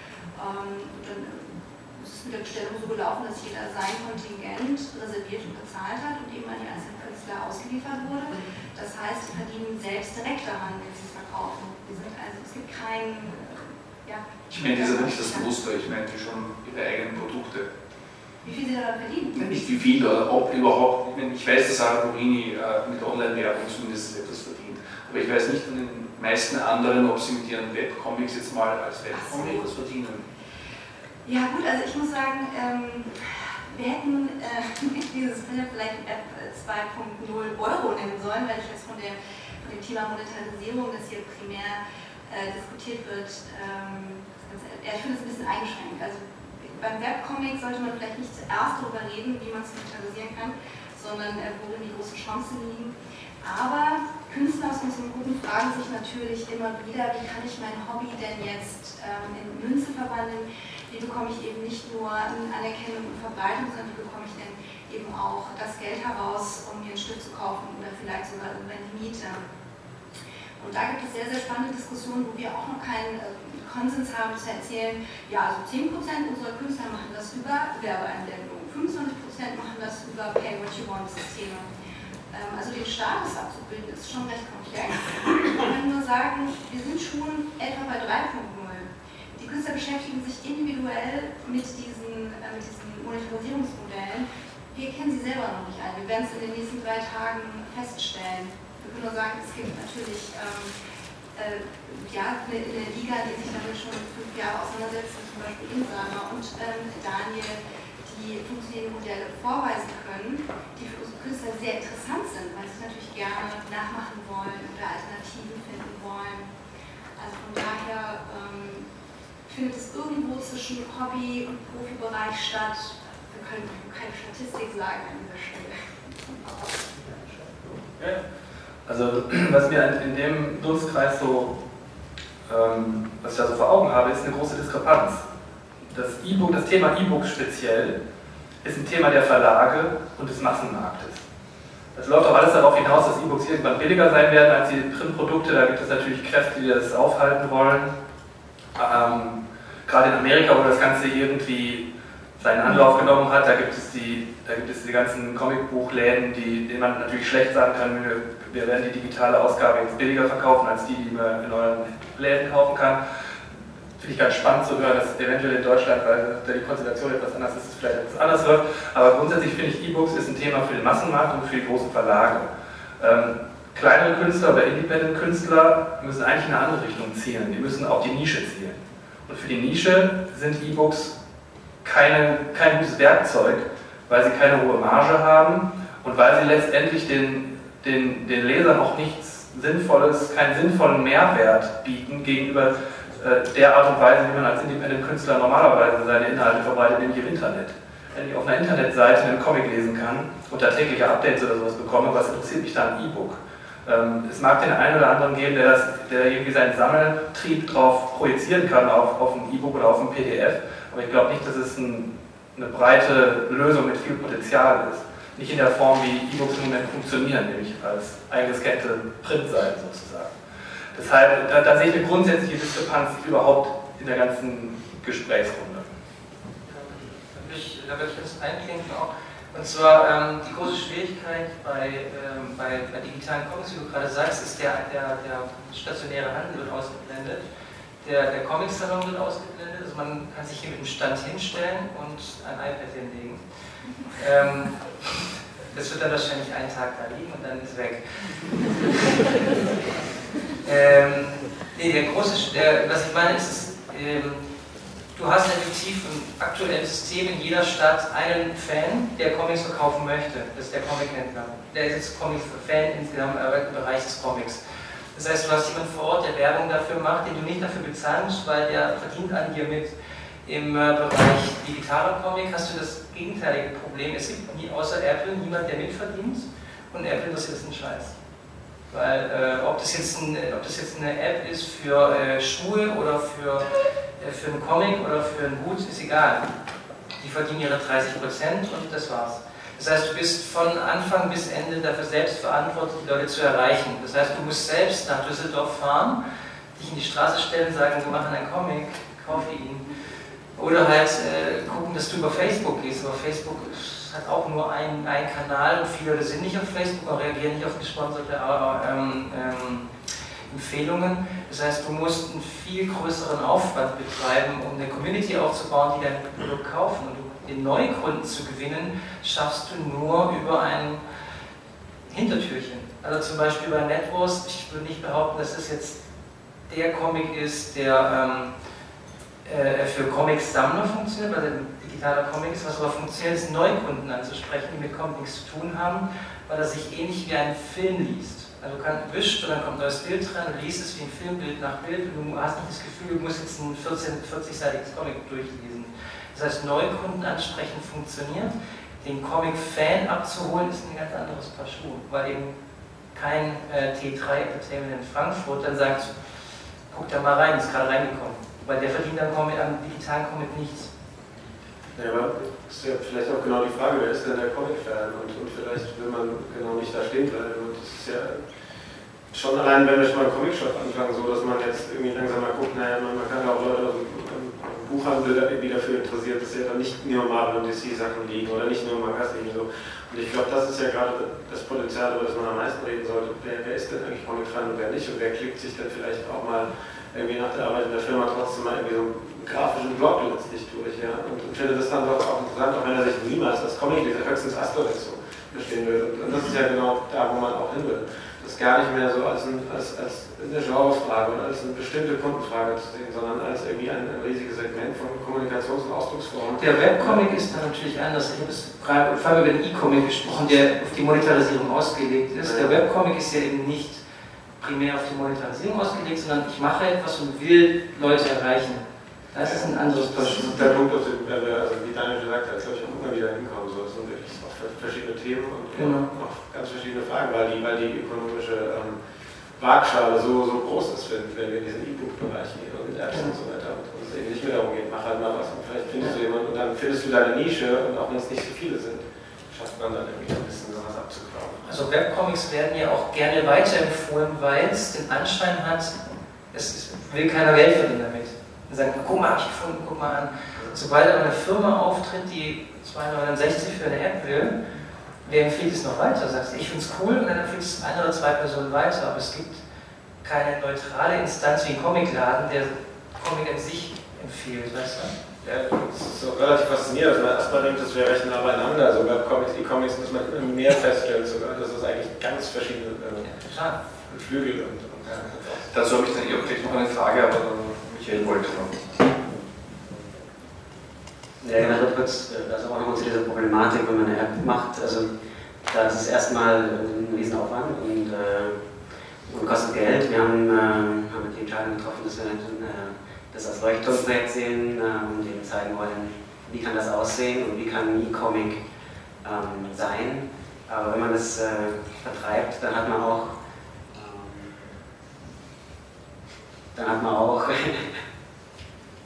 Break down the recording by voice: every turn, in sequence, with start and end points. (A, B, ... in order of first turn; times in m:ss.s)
0:00.3-0:15.5 A
0:14.5-0:17.7 B
0:18.4-0:19.7 A
0:19.3-0:30.2 B
0:29.1-0:29.7 A
0:31.2-1:09.4 A
1:10.6-1:21.7 A
1:22.3-1:40.7 A
1:41.3-1:56.5 A
1:57.2-1:58.8 A
1:59.4-2:06.8 A
2:07.0-2:08.2 C
2:08.9-2:11.6 C
2:12.5-2:15.2 C
2:15.9-2:18.0 C
2:18.6-2:21.2 C
2:21.9-2:28.0 C
2:28.8-2:31.8 C
2:32.4-2:43.0 C
2:44.0-3:01.1 C
3:01.8-3:40.3 C
3:40.9-3:45.8 C
3:46.7-3:57.4 D
3:58.0-4:03.4 D
4:04.2-4:08.8 D
4:10.6-4:14.4 D
4:15.1-4:24.6 D
4:25.1-4:29.9 D
4:30.4-4:38.2 D
4:38.9-4:43.7 D
4:44.2-4:46.5 D
4:47.2-4:56.2 D
4:56.7-4:59.9 D
5:00.6-5:09.9 D
5:10.5-5:21.0 D
5:22.1-5:26.0 D
5:26.7-5:28.5 D
5:29.4-5:52.5 D
5:53.1-5:56.1 D
5:56.9-6:00.9 D
6:02.0-6:08.4 E
6:09.3-6:47.4 E
6:46.6-6:54.0 D
6:52.4-6:52.8 E
6:54.6-7:00.6 D
6:59.4-7:09.0 E
7:05.8-7:06.1 D
7:09.6-7:21.8 E
7:21.6-7:26.0 D
7:26.5-7:34.5 D
7:35.2-7:39.6 D
7:40.2-7:45.1 D
7:45.4-7:53.3 E
7:53.2-7:53.8 D
7:54.0-7:55.7 E
7:55.7-7:58.8 B
8:01.4-8:05.1 F
8:05.7-8:08.6 F
8:09.3-8:18.6 F
8:19.2-8:23.3 F
8:23.9-8:24.7 F
8:26.7-8:27.9 F